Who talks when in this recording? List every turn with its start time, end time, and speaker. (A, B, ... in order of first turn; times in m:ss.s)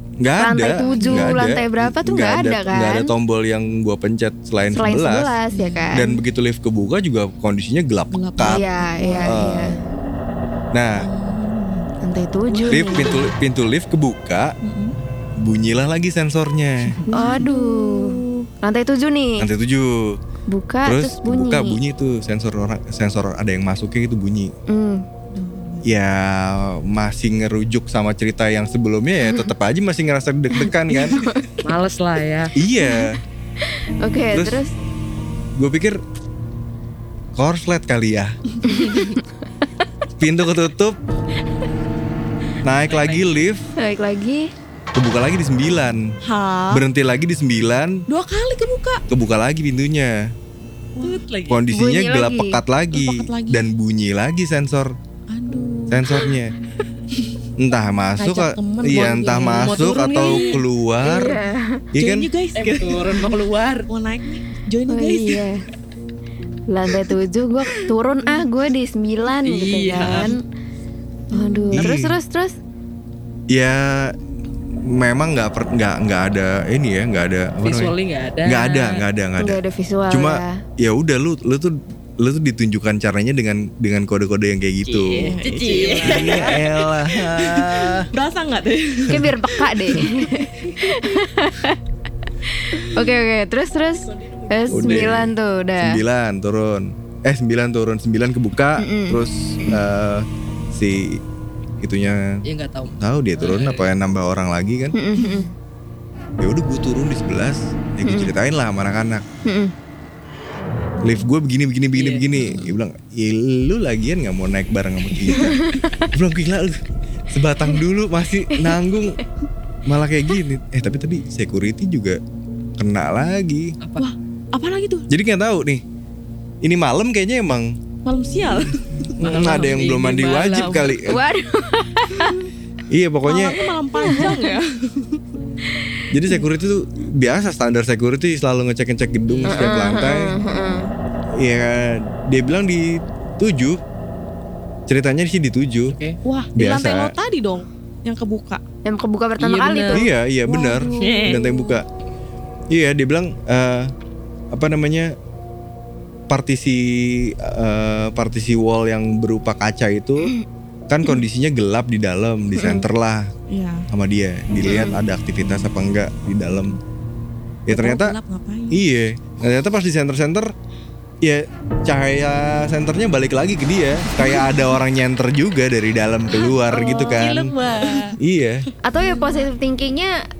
0:00.2-0:05.3 A
0:00.4-0:03.1 B
0:00.8-0:01.4 C
0:04.7-0:06.0 B
0:05.5-0:06.2 C
0:05.9-0:08.6 A
0:08.1-0:09.8 C
0:08.4-0:09.8 B
0:09.2-0:09.8 A
0:10.7-0:11.1 A
0:11.0-0:13.3 C
0:12.0-0:13.2 B
0:12.7-0:14.5 A
0:14.6-0:15.0 C
0:15.4-0:17.0 A
0:16.8-0:18.5 C
0:17.1-0:19.5 B
0:19.4-0:20.2 A
0:20.5-0:21.8 B
0:20.8-0:24.5 A
0:24.7-0:25.0 B
0:25.3-0:25.8 C
0:25.8-0:31.2 A
0:30.9-0:31.5 B
0:31.6-0:32.5 D
0:32.5-0:33.2 A
0:32.8-0:33.0 B
0:33.6-0:34.7 B
0:34.3-0:34.6 A
0:35.6-0:36.0 A
0:37.3-0:38.4 A
0:38.7-0:39.2 B
0:40.2-0:41.0 A
0:42.6-0:43.7 A
0:42.8-0:43.4 D
0:43.8-0:44.5 B
0:44.9-0:46.1 A
0:46.2-0:46.8 C
0:46.7-0:48.0 A
0:48.1-0:49.0 C
0:49.1-0:50.3 A
0:51.0-0:51.2 C
0:51.0-0:51.6 D
0:51.5-0:54.9 A
0:51.7-0:52.6 B
0:52.9-0:53.7 C
0:55.3-0:56.4 C
0:55.9-0:56.5 A
0:57.6-1:01.4 A
0:58.2-1:00.5 C
0:59.0-1:00.6 D
1:01.0-1:01.8 B
1:01.9-1:02.3 A
1:02.0-1:05.5 C
1:02.5-1:03.9 D
1:04.9-1:05.6 B
1:06.7-1:10.4 B
1:06.9-1:07.2 C
1:09.4-1:10.3 D
1:10.0-1:10.3 C
1:11.3-1:11.8 C
1:11.3-1:12.6 B
1:11.7-1:12.1 A
1:13.5-1:14.2 A
1:14.8-1:17.9 A
1:17.6-1:19.0 D
1:18.4-1:25.3 A
1:19.4-1:20.6 B
1:24.8-1:26.6 D
1:25.2-1:31.2 C
1:26.0-1:28.1 A
1:29.1-1:31.8 B
1:32.6-1:36.0 B
1:34.1-1:35.1 C
1:34.7-1:41.2 A
1:38.8-1:39.8 B
1:41.8-1:44.9 A
1:42.4-1:43.9 D
1:44.9-1:45.5 B
1:45.2-1:45.5 C
1:46.4-1:49.2 A
1:48.0-1:48.3 B
1:49.4-1:49.7 B
1:51.0-1:59.2 A
1:51.9-1:52.3 D
1:52.4-1:52.8 C
1:55.3-1:56.0 B
1:59.8-2:02.2 A
2:02.8-2:03.8 A
2:03.8-2:04.0 D
2:04.0-2:05.1 C
2:05.1-2:05.8 A
2:06.6-2:07.8 A
2:08.0-2:09.8 C
2:09.2-2:11.2 A
2:09.2-2:11.1 D
2:11.0-2:12.4 B
2:12.9-2:13.6 A
2:13.2-2:15.2 C
2:14.0-2:14.5 B
2:16.1-2:20.4 A
2:19.3-2:19.7 D
2:19.4-2:20.9 B
2:21.4-2:23.8 A
2:24.9-2:26.0 A
2:25.9-2:26.2 D
2:26.2-2:28.6 C
2:26.5-2:27.2 A
2:28.8-2:30.1 B
2:29.4-2:30.0 D
2:29.9-2:31.8 A
2:30.5-2:31.8 C
2:31.0-2:31.4 D
2:32.7-2:33.9 A
2:34.5-2:35.2 A
2:36.3-2:40.3 A
2:40.9-2:43.3 A
2:42.6-2:42.8 B
2:43.5-2:43.9 C
2:43.9-2:46.8 A
2:44.6-2:45.0 B
2:47.6-2:48.1 A
2:47.7-2:48.8 C
2:48.7-2:50.5 A
2:51.2-2:57.5 A
2:56.3-2:58.2 C
2:58.2-2:58.6 A
2:58.8-3:00.2 B
2:59.0-2:59.5 C